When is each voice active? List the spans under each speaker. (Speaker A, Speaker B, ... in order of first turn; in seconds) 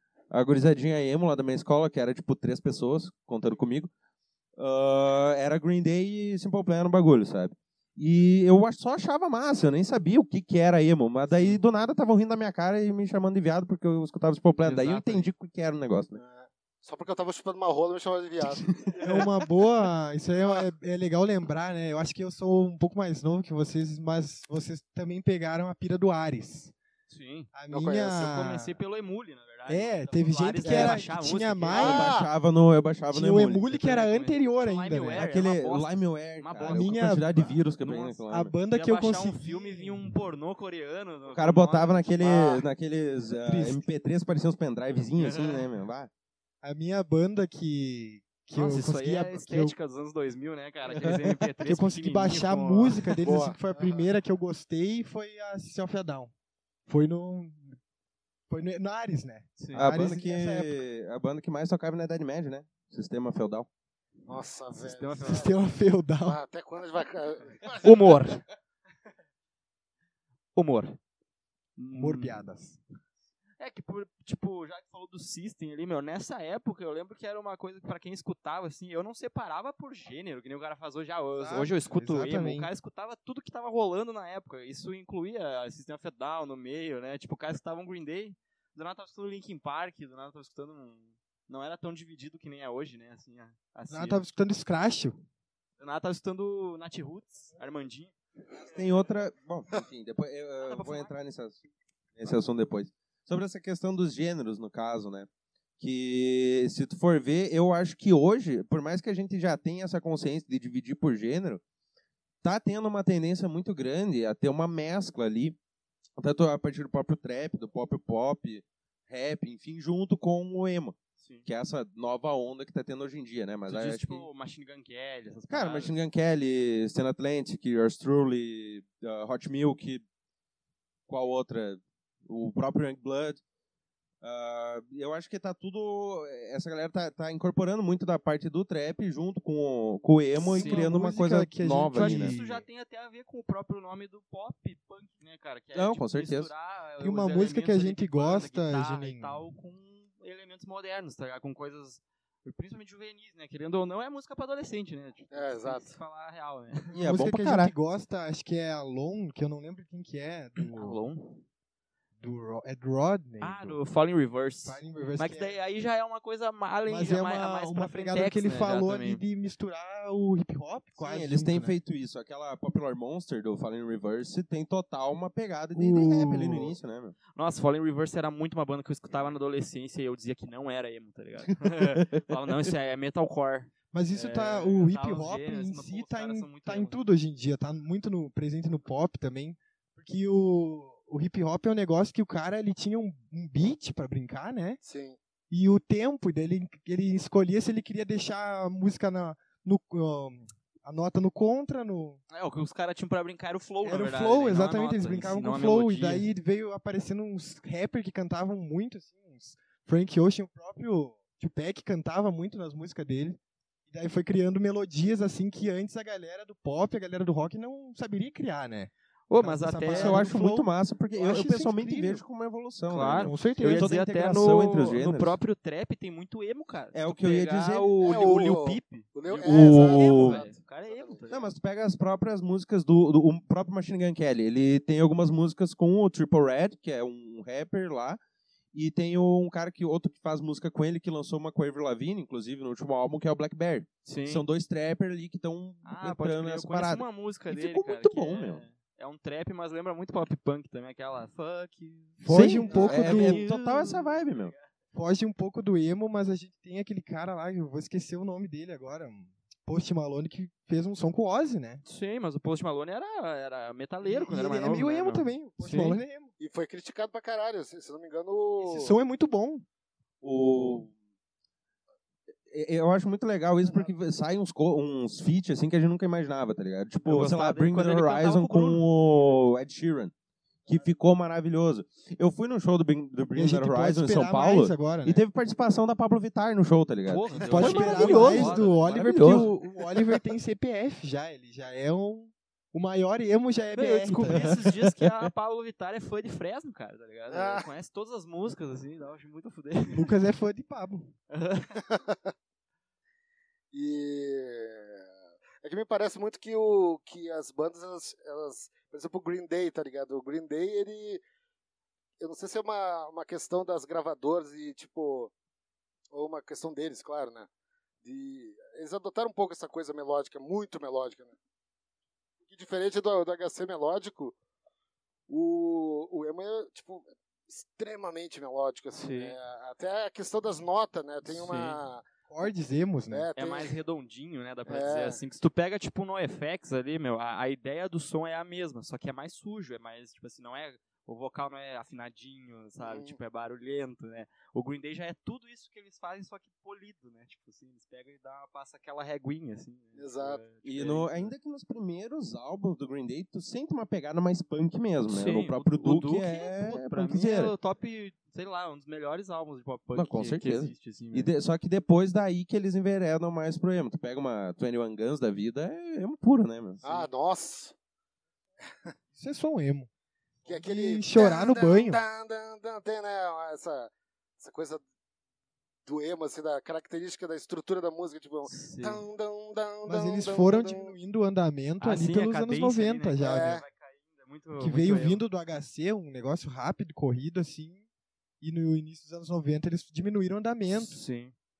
Speaker A: 0.3-3.9, 4.6-16.2, 30.6-31.0, 31.7-33.7, 35.1-38.5, 41.3-46.1, 59.7-63.7, 98.5-101.6, 102.2-105.3, 105.8-111.6, 112.4-115.5, 116.2-124.3, 125.5-130.0, 131.1-133.4, 134.2-142.3, 145.7-146.5, 156.9-157.7, 171.0-177.2, 181.6-182.5, 219.9-225.4, 226.9-227.9, 229.4-230.4, 231.3-238.2, 238.7-248.6, 252.3-254.5, 270.2-270.9, 272.5-280.1, 280.6-290.0, 294.3-295.1, 350.6-357.5, 359.9-366.8
Speaker B: 11.3-11.6, 14.6-15.3, 27.1-27.5, 28.1-32.0, 33.7-42.6, 45.2-45.6, 48.5-53.2, 59.6-59.9, 64.8-65.5, 67.8-68.4, 70.5-71.0, 71.8-72.5, 73.6-94.2, 95.8-98.1, 100.6-101.1, 121.2-121.5, 123.7-126.0, 140.5-140.9, 141.8-156.9, 160.7-161.4, 163.4-169.2, 177.3-187.0, 202.3-206.3, 219.3-220.3, 222.9-231.5, 244.0-244.4, 245.8-254.6, 261.8-266.0, 277.0-278.9, 287.1-288.9, 293.7-300.1, 301.3-301.8, 328.9-329.4, 331.3-331.8, 333.4-351.3, 355.1-361.3, 378.5-379.0, 381.8-385.2, 390.7-391.3
Speaker C: 16.1-19.0, 27.7-28.3, 31.7-32.3, 53.2-54.0, 64.3-65.5, 66.2-68.2, 155.3-155.9, 194.8-195.2, 228.0-231.2, 266.4-268.9, 297.3-297.7, 301.9-302.3, 303.7-305.1, 305.6-311.2, 312.2-315.3, 316.1-317.5, 318.0-321.4, 322.5-324.3, 325.3-332.0, 333.1-333.8, 334.7-335.2, 342.8-343.2, 349.9-350.4, 366.8-367.7, 370.4-374.8, 375.9-380.9, 383.2-383.6
Speaker D: 19.0-26.7, 27.5-28.7, 29.7-32.2, 33.1-35.2, 36.6-37.6, 38.3-40.0, 43.4-43.8, 46.6-49.8, 51.6-56.3, 56.9-57.8, 58.5-60.8, 65.2-66.4, 71.9-72.8, 81.4-82.7, 93.9-95.2, 140.4-142.6, 147.0-149.3, 157.0-161.0, 162.2-163.8, 164.6-165.6, 166.9-171.8, 175.7-176.8, 183.9-194.8, 195.5-202.2, 203.8-222.2, 223.2-223.9, 252.2-253.4, 254.9-261.8, 264.0-266.3, 268.6-269.6, 283.3-285.2, 287.4-294.5, 299.9-301.1, 332.3-333.3, 369.1-369.9, 370.4-372.0, 379.8-383.6, 384.6-387.8, 388.4-391.0